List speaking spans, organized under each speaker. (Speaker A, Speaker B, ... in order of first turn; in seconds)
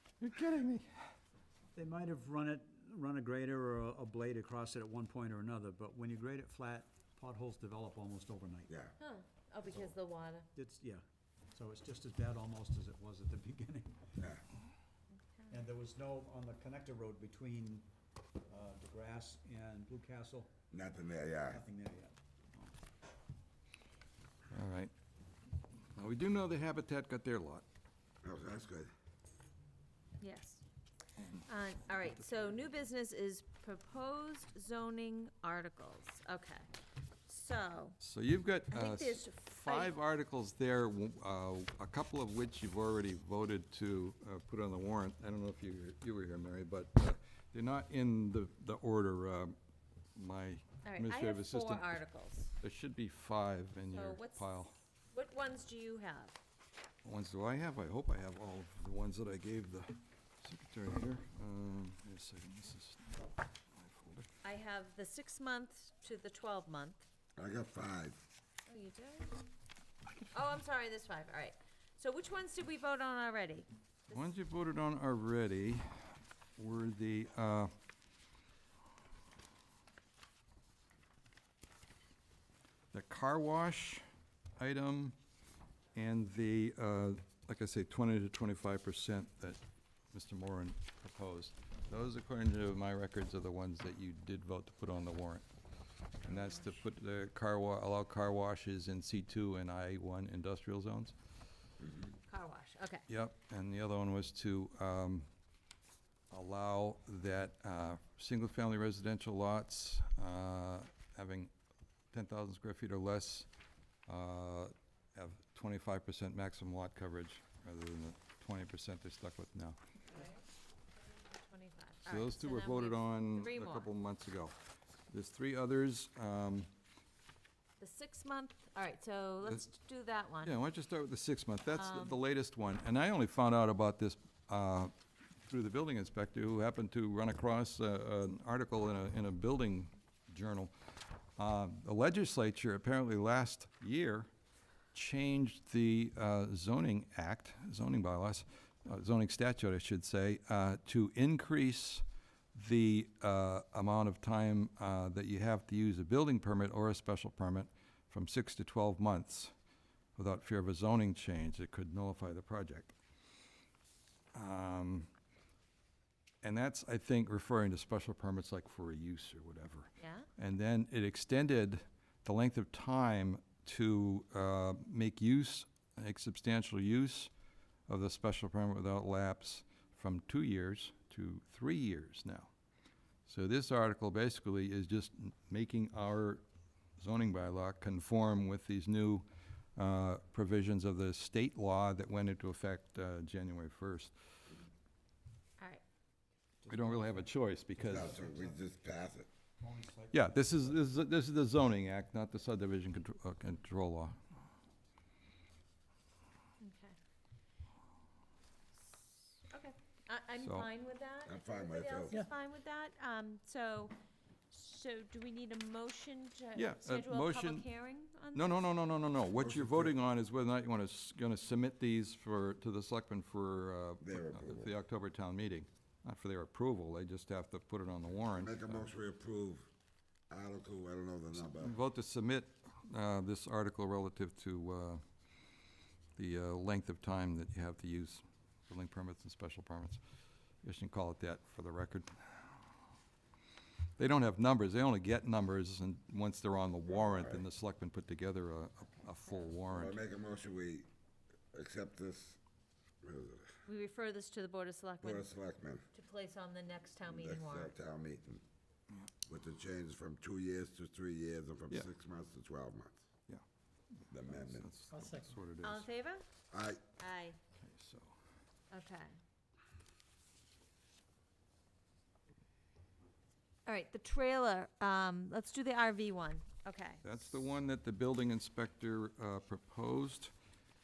Speaker A: 0.2-0.9, 24.5-24.9, 26.0-27.6, 38.0-49.6, 50.1-52.0, 52.6-54.8, 57.0-64.3, 74.1-77.7, 82.9-84.0, 84.6-85.2, 86.0-95.5, 96.2-101.2, 103.1-105.3, 106.3-111.5, 112.1-113.5, 114.1-119.8, 122.1-124.5, 125.1-126.7, 130.4-134.9, 135.4-140.7, 141.4-144.3, 144.9-159.5, 160.2-162.9, 164.3-165.1, 166.4-177.3, 177.9-182.5, 183.3-186.4, 187.0-194.1, 196.7-198.2, 200.1-204.2, 210.4-210.7, 216.6-217.7, 218.3-228.9, 231.5-235.0, 236.2-240.0, 240.6-242.5, 244.0-250.0, 264.2-265.9, 267.6-268.1, 277.0-280.3
Speaker B: 1.8-8.7, 10.6-11.0, 11.5-14.1, 15.5-17.8, 18.5-20.6, 21.5-22.1, 196.7-197.3, 197.8-198.6, 199.6-200.8, 264.9-265.4
Speaker C: 9.0-10.5, 30.2-30.6, 31.5-36.7, 37.3-38.0, 38.7-40.0, 50.9-52.6, 53.9-54.5, 55.1-56.4, 64.4-67.1, 68.7-69.4, 70.3-74.2, 102.3-103.0, 120.1-120.4, 121.0-123.9, 127.8-130.5, 131.7-132.2, 170.0-170.3, 206.6-207.0, 209.5-213.9, 214.5-218.7, 253.7-255.3, 255.9-257.7, 265.6-266.3, 267.0-267.4, 268.7-269.1, 273.7-277.0
Speaker D: 20.7-21.6, 28.2-28.9, 67.4-68.2, 197.8-199.3, 211.2-212.3, 219.4-219.9, 224.0-224.8, 228.4-229.7, 230.3-231.8, 246.9-247.4, 249.7-250.9, 251.5-252.4, 253.0-253.5, 255.0-255.8, 257.1-258.4, 259.3-263.0, 264.1-264.7, 266.5-266.8